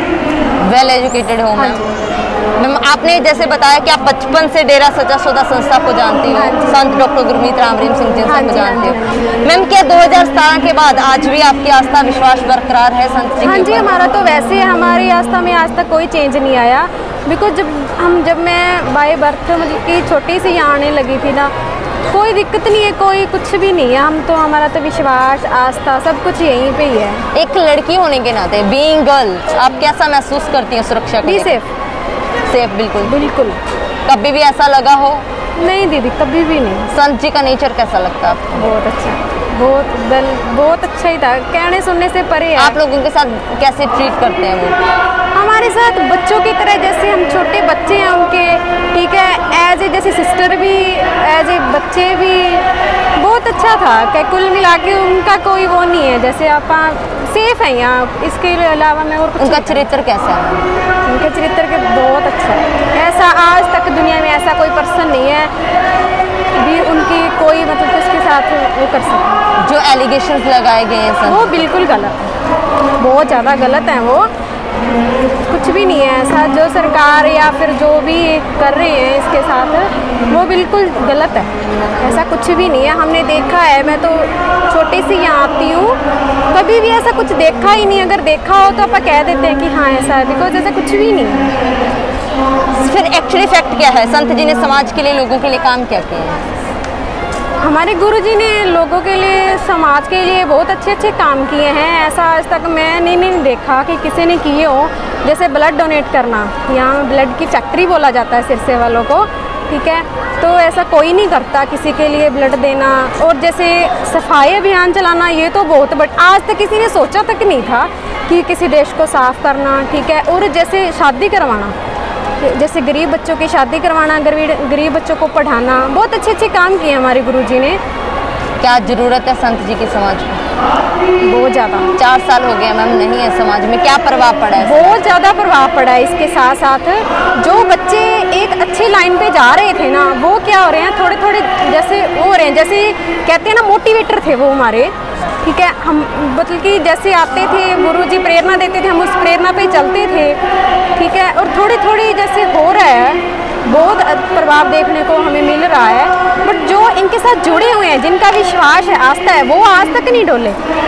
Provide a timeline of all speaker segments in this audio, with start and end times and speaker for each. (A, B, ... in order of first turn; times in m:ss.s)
0:00.6-0:01.8 A
0:01.6-0:01.8 B
0:02.6-0:14.0 A
0:06.3-0:06.8 B
0:08.2-0:09.3 B
0:13.4-0:21.5 B
0:22.1-0:27.2 B
0:27.3-0:31.6 A
0:31.2-0:31.7 B
0:32.5-0:33.2 A
0:33.0-0:33.6 B
0:34.0-0:35.2 A
0:35.6-0:36.9 B
0:36.9-0:38.7 A
0:38.5-0:42.8 B
0:42.6-0:44.8 A
0:45.3-0:59.9 B
0:59.4-1:00.6 A
1:01.0-1:05.5 B
1:06.6-1:09.4 B
1:09.6-1:11.7 A
1:11.2-1:12.3 B
1:13.0-1:14.3 B
1:15.5-1:26.0 B
1:26.5-1:31.5 B
1:32.8-1:36.4 A
1:37.6-2:01.7 B
2:02.4-2:07.8 B
2:08.6-2:10.4 A
2:11.2-2:11.9 B
2:12.0-2:15.1 A
2:14.6-2:30.4 B
2:31.0-2:40.6 B